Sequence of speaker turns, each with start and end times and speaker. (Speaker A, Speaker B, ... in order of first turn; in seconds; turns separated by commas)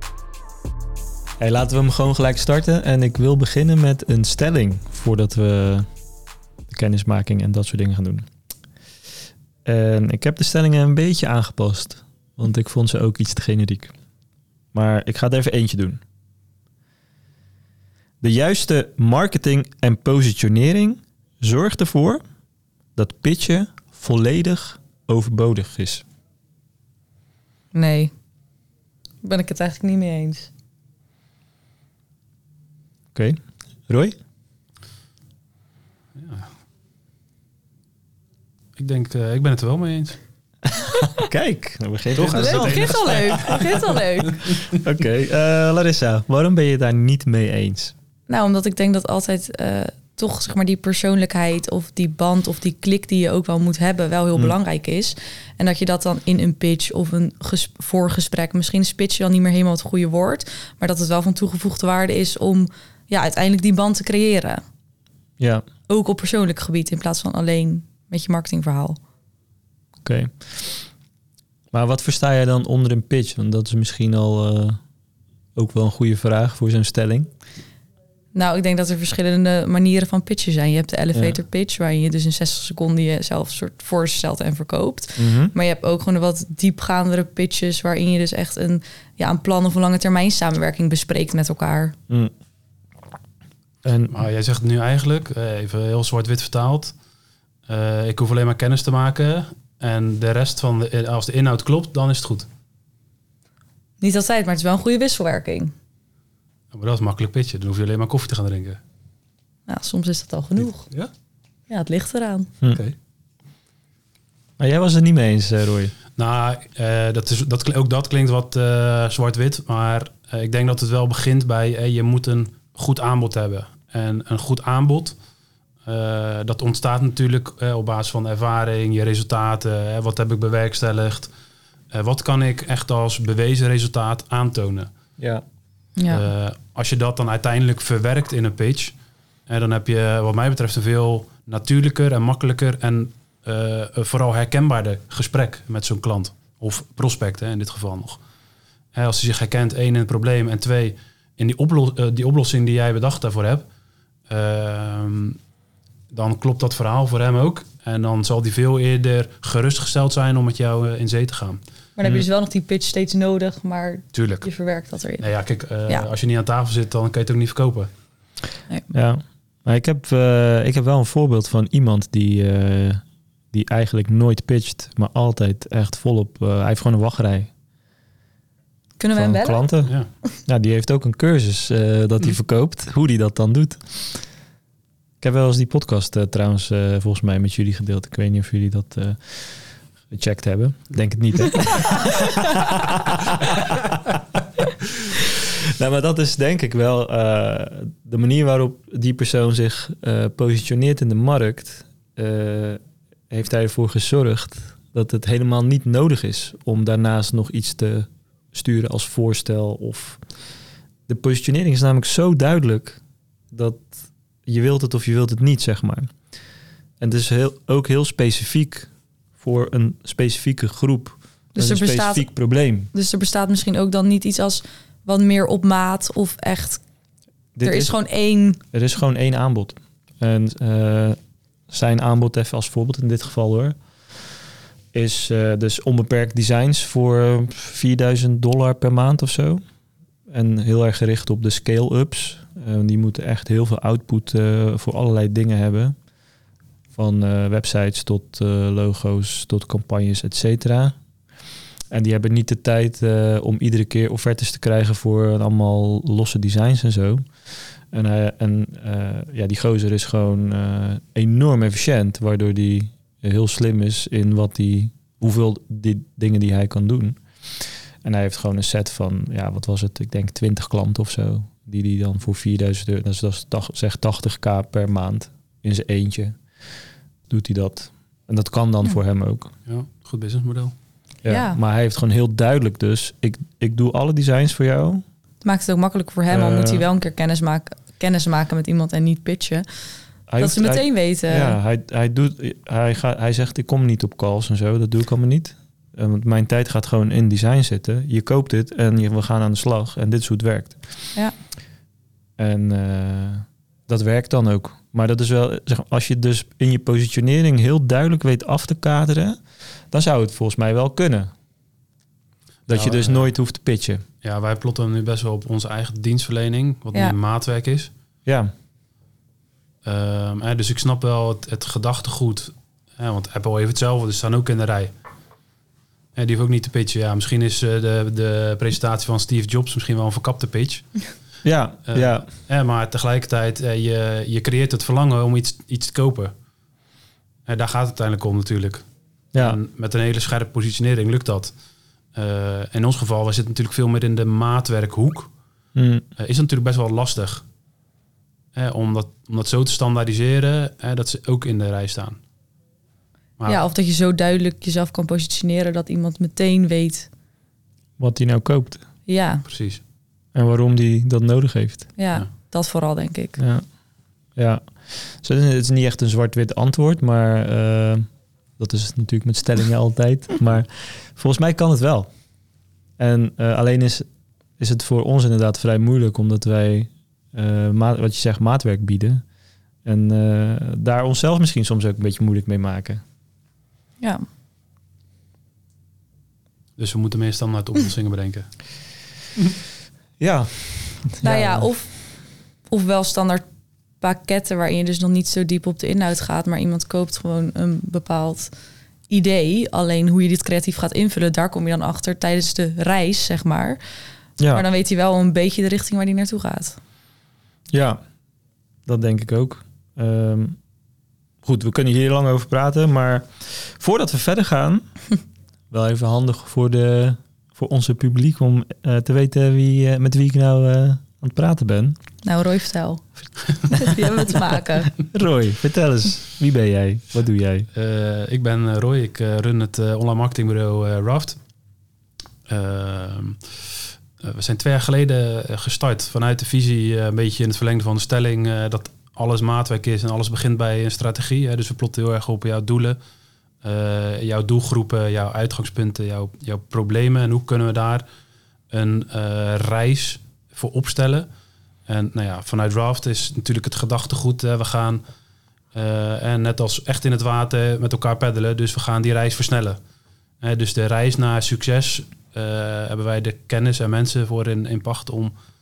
Speaker A: 1.4-5.9, Speaker A: 6.7-8.3, Speaker A: 9.7-13.9, Speaker A: 14.7-16.0, Speaker A: 18.2-22.2, Speaker A: 23.0-26.1, Speaker B: 27.7-28.1, Speaker B: 29.2-30.5, Speaker A: 33.1-34.2, Speaker C: 36.1-36.5, Speaker C: 38.8-40.2, Speaker A: 40.8-47.9, Speaker C: 42.1-44.6, Speaker B: 42.3-44.4, Speaker B: 48.3-64.6, Speaker A: 65.4-65.7, Speaker B: 65.9-69.0, Speaker A: 70.0-70.8, Speaker A: 71.7-74.8, Speaker A: 75.5-77.3, Speaker B: 78.3-92.0, Speaker A: 85.2-85.5, Speaker A: 93.8-94.2, Speaker C: 94.1-96.9, Speaker C: 97.7-102.5, Speaker B: 104.0-105.7, Speaker C: 106.7-108.8, Speaker B: 109.7-110.9, Speaker C: 110.8-111.1, Speaker B: 111.7-112.5, Speaker C: 112.7-113.0, Speaker A: 114.6-115.9, Speaker C: 116.2-125.2, Speaker C: 125.8-131.3, Speaker C: 131.9-134.9, Speaker A: 135.2-135.4, Speaker B: 136.0-136.3, Speaker C: 136.1-138.9, Speaker C: 139.5-148.2, Speaker C: 148.9-153.7, Speaker C: 154.3-155.4, Speaker C: 156.1-161.6, Speaker B: 162.0-165.3, Speaker C: 164.1-164.5, Speaker C: 165.2-167.9, Speaker A: 168.9-177.5, Speaker B: 179.0-179.7, Speaker A: 179.2-179.9, Speaker A: 180.5-184.3, Speaker A: 185.2-194.6, Speaker A: 195.3-210.2, Speaker A: 211.1-213.0, Speaker A: 213.5-216.2, Speaker A: 217.0-222.9, Speaker B: 221.5-222.3, Speaker B: 222.9-226.8, Speaker A: 227.6-228.0, Speaker B: 227.6-228.6, Speaker A: 228.6-231.2, Speaker A: 231.7-234.2, Speaker A: 234.9-239.6, Speaker A: 240.3-246.0, Speaker A: 247.0-251.0, Speaker A: 251.9-276.4, Speaker A: 277.3-279.5, Speaker C: 279.7-280.8, Speaker A: 281.2-285.0, Speaker B: 281.3-281.6, Speaker B: 285.4-289.6, Speaker A: 286.3-286.9, Speaker A: 290.3-301.0, Speaker B: 290.4-291.6, Speaker A: 302.4-311.3, Speaker A: 312.7-314.0, Speaker C: 312.7-313.3, Speaker C: 314.2-317.9, Speaker A: 318.3-318.5, Speaker C: 319.8-324.9, Speaker C: 326.1-331.0, Speaker A: 331.4-332.3, Speaker C: 331.9-336.3, Speaker C: 337.5-338.8, Speaker C: 339.4-341.5, Speaker C: 342.1-345.3, Speaker A: 345.8-346.1, Speaker C: 346.2-347.4, Speaker C: 348.6-352.2, Speaker B: 353.5-357.1, Speaker A: 358.0-358.8, Speaker B: 359.1-359.4, Speaker C: 359.4-359.8, Speaker A: 360.3-361.9, Speaker B: 362.0-363.4, Speaker A: 363.4-363.6, Speaker A: 364.4-368.1, Speaker A: 368.6-372.1, Speaker A: 373.0-374.1, Speaker A: 374.6-379.2, Speaker A: 379.9-383.0, Speaker C: 386.8-388.5, Speaker A: 390.2-391.7, Speaker B: 391.2-392.0, Speaker B: 392.7-393.4, Speaker B: 394.0-398.5, Speaker B: 399.1-403.8, Speaker A: 404.4-404.6, Speaker B: 404.5-406.8, Speaker A: 407.7-408.0, Speaker A: 408.9-410.6, Speaker A: 411.4-414.9, Speaker A: 415.7-422.0, Speaker B: 422.2-423.1, Speaker B: 423.6-424.9, Speaker A: 425.1-427.7, Speaker C: 427.7-431.4, Speaker C: 432.5-433.4, Speaker C: 434.2-443.0, Speaker C: 443.6-448.1, Speaker C: 448.7-451.3, Speaker C: 451.9-455.0, Speaker C: 455.7-459.8, Speaker C: 460.4-465.3